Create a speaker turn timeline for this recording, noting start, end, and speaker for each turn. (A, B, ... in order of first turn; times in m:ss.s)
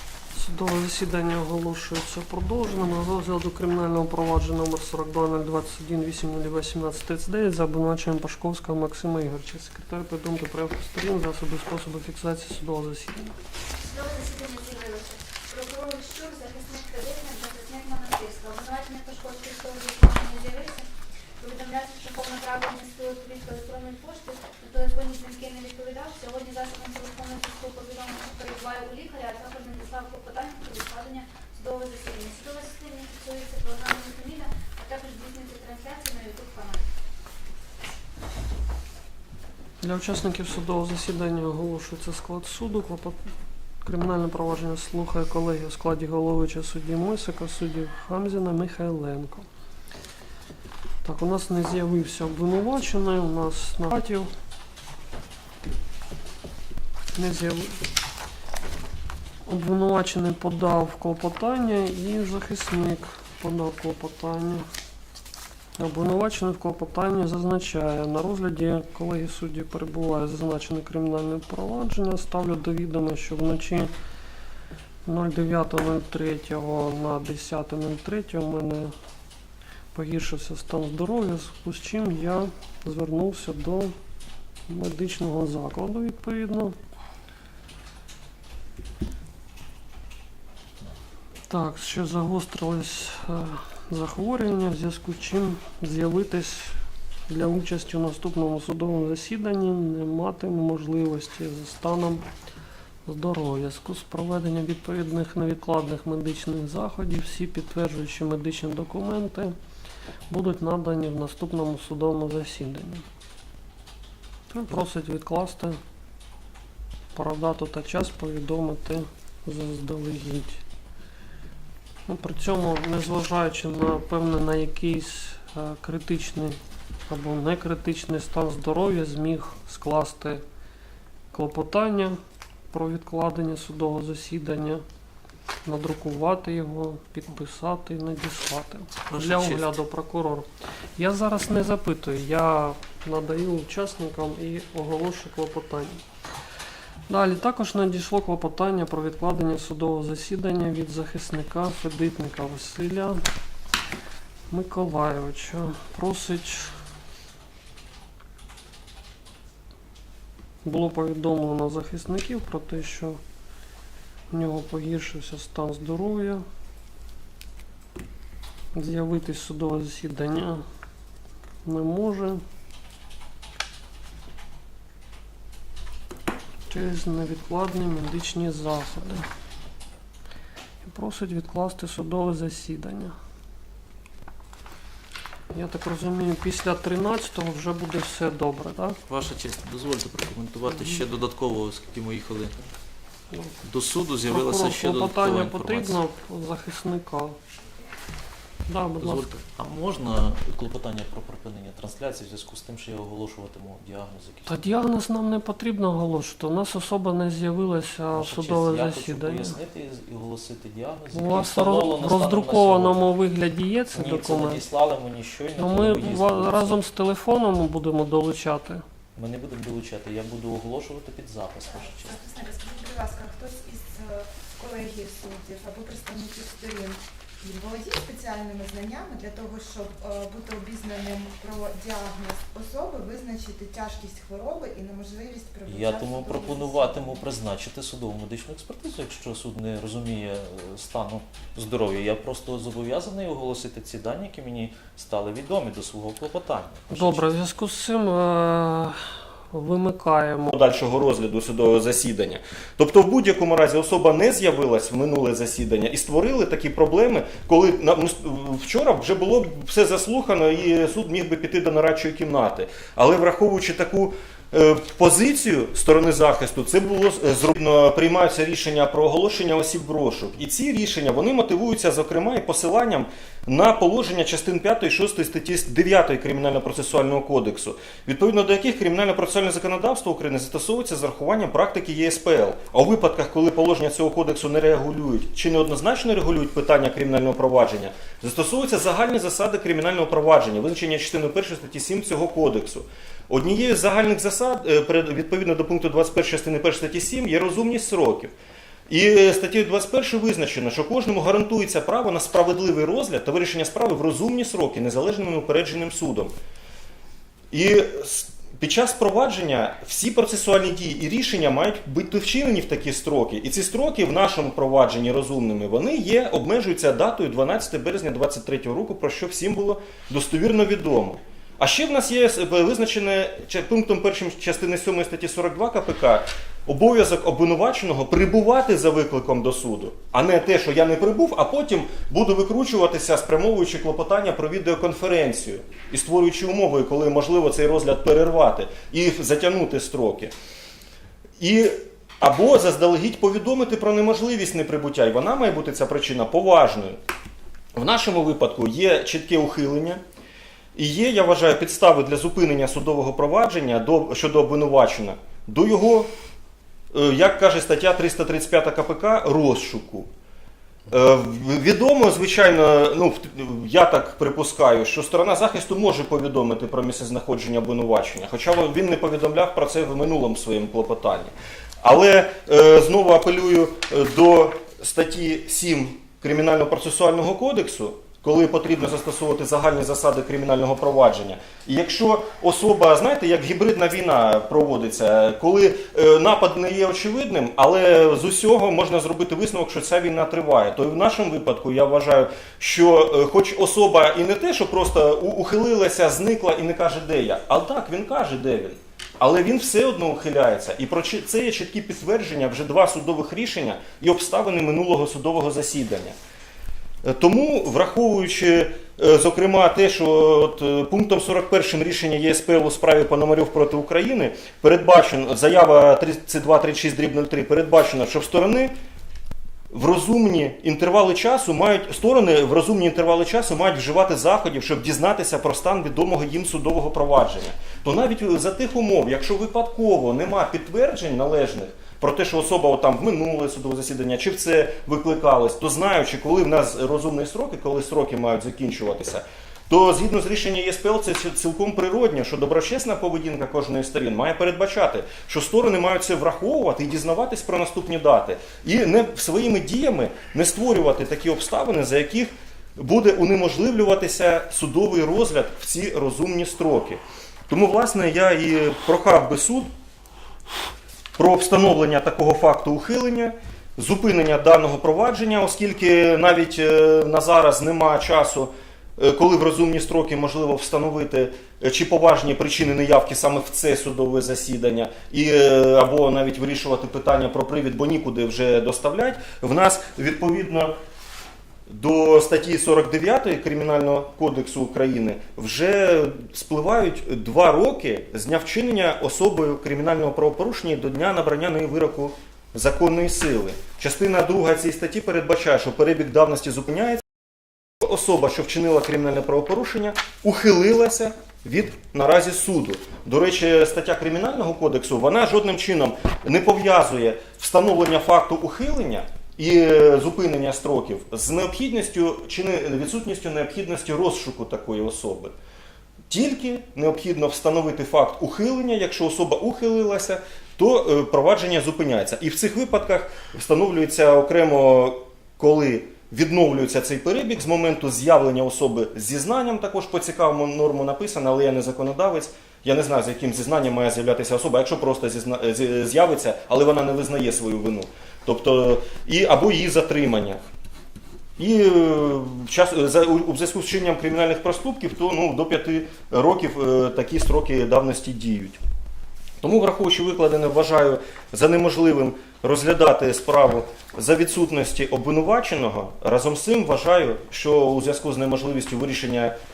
0:00.3-0:13.3 A
0:13.8-0:20.9 B
0:21.4-0:36.8 B
0:39.8-0:43.2 A
0:43.8-0:49.5 A
0:51.0-0:54.3 A
0:57.2-0:57.8 A
0:59.5-1:04.7 A
1:05.8-1:13.9 A
1:15.1-1:18.9 A
1:19.9-1:24.0 A
1:24.7-1:26.8 A
1:31.5-1:36.8 A
1:37.3-1:42.3 A
1:43.1-1:49.6 A
1:50.3-1:53.1 A
1:54.5-1:55.8 A
1:57.2-2:00.6 A
2:02.1-2:10.4 A
2:11.3-2:12.2 A
2:12.7-2:14.8 A
2:15.6-2:26.0 A
2:19.1-2:19.8 C
2:27.1-2:33.2 A
2:34.5-2:36.8 A
2:40.6-2:43.2 A
2:44.3-2:46.4 A
2:48.7-2:50.6 A
2:51.6-2:52.4 A
2:56.7-2:59.3 A
3:00.8-3:03.2 A
3:05.5-3:09.0 A
3:09.1-3:12.7 C
3:10.7-3:11.0 A
3:13.3-3:13.6 A
3:13.6-3:16.0 C
3:14.3-3:17.4 A
3:18.7-3:19.3 A
3:19.0-3:24.7 C
3:24.5-3:29.6 A
3:28.1-3:33.0 C
3:31.1-3:34.6 A
3:33.9-3:36.8 C
3:35.6-3:38.8 A
3:39.2-3:42.1 C
3:41.7-3:57.2 D
3:55.7-4:07.3 C
4:06.9-4:10.5 A
4:10.5-4:58.3 E
4:58.9-5:06.3 E
5:07.5-5:40.3 E
5:41.4-5:47.0 E
5:47.8-5:50.0 E
5:50.8-5:56.1 E
5:56.9-6:00.1 E
6:00.9-6:46.2 E
6:47.0-6:58.7 E
6:59.7-7:39.7 E
7:41.2-8:00.7 E
8:01.7-8:17.0 E
8:17.8-8:35.3 E
8:36.1-9:00.4 E
9:01.4-9:08.6 E
9:09.4-9:19.4 E